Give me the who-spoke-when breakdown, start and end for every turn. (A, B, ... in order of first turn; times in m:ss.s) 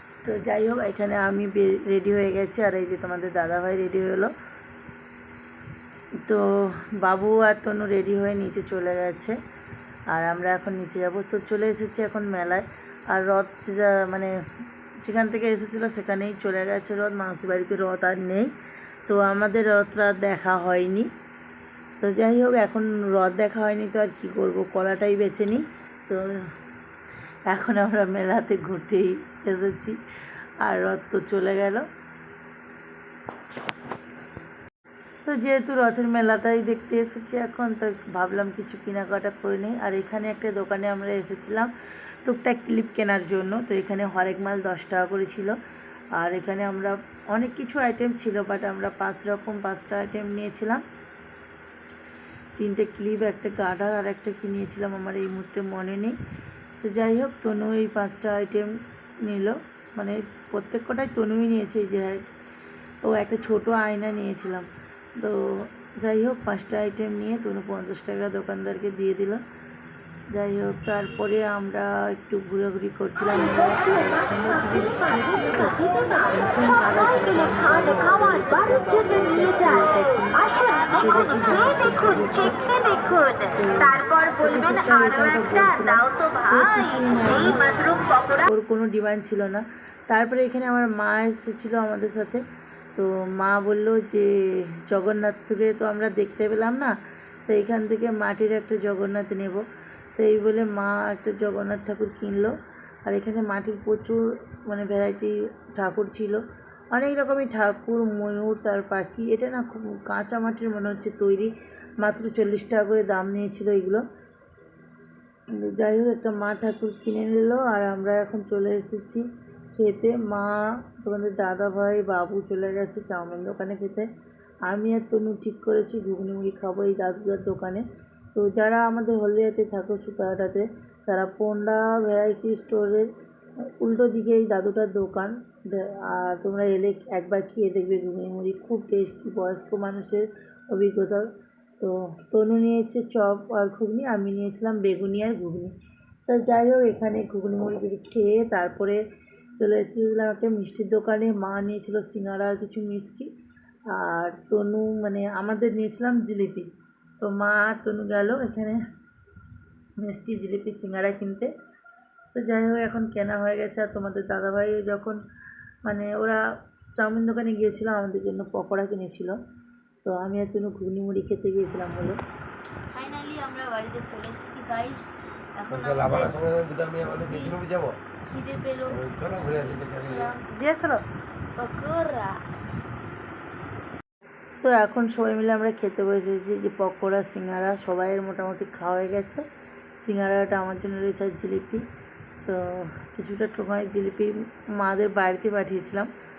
0:00.2-0:04.3 A
0:06.2-0:09.4 A
0:10.1-0:14.3 A
0:15.0-0:18.5 A
0:19.1-0:21.1 A
0:22.0-0:26.5 A
0:27.5-0:30.0 A
0:30.6-0:31.9 A
0:35.2-0:41.7 A
0:42.2-0:45.6 A
0:46.2-0:50.8 A
0:52.6-0:56.2 A
0:56.8-1:02.2 A
1:03.0-1:04.7 A
1:05.2-1:09.4 A
1:10.3-1:32.4 A
1:33.0-1:36.9 A
1:37.5-1:39.6 A
1:40.2-1:42.5 A
1:43.1-1:46.4 A
1:46.9-1:54.0 A
1:55.6-2:04.1 A
2:04.7-2:13.1 A
2:13.7-2:21.2 A
2:21.8-2:25.7 A
2:26.3-2:29.0 A
2:29.6-2:33.3 A
2:34.0-2:36.7 A
2:37.2-2:38.8 A
2:40.0-2:41.5 A
2:42.3-2:45.2 A
2:45.8-2:46.4 A
2:47.0-2:49.4 A
2:50.0-2:52.2 A
2:53.0-2:56.4 B
2:55.7-2:58.0 C
2:57.2-2:57.6 B
2:58.3-3:00.5 B
2:58.9-3:00.3 C
3:00.6-3:01.0 A
3:01.6-3:02.4 B
3:04.6-3:09.4 A
3:10.0-3:11.8 A
3:12.4-3:16.1 A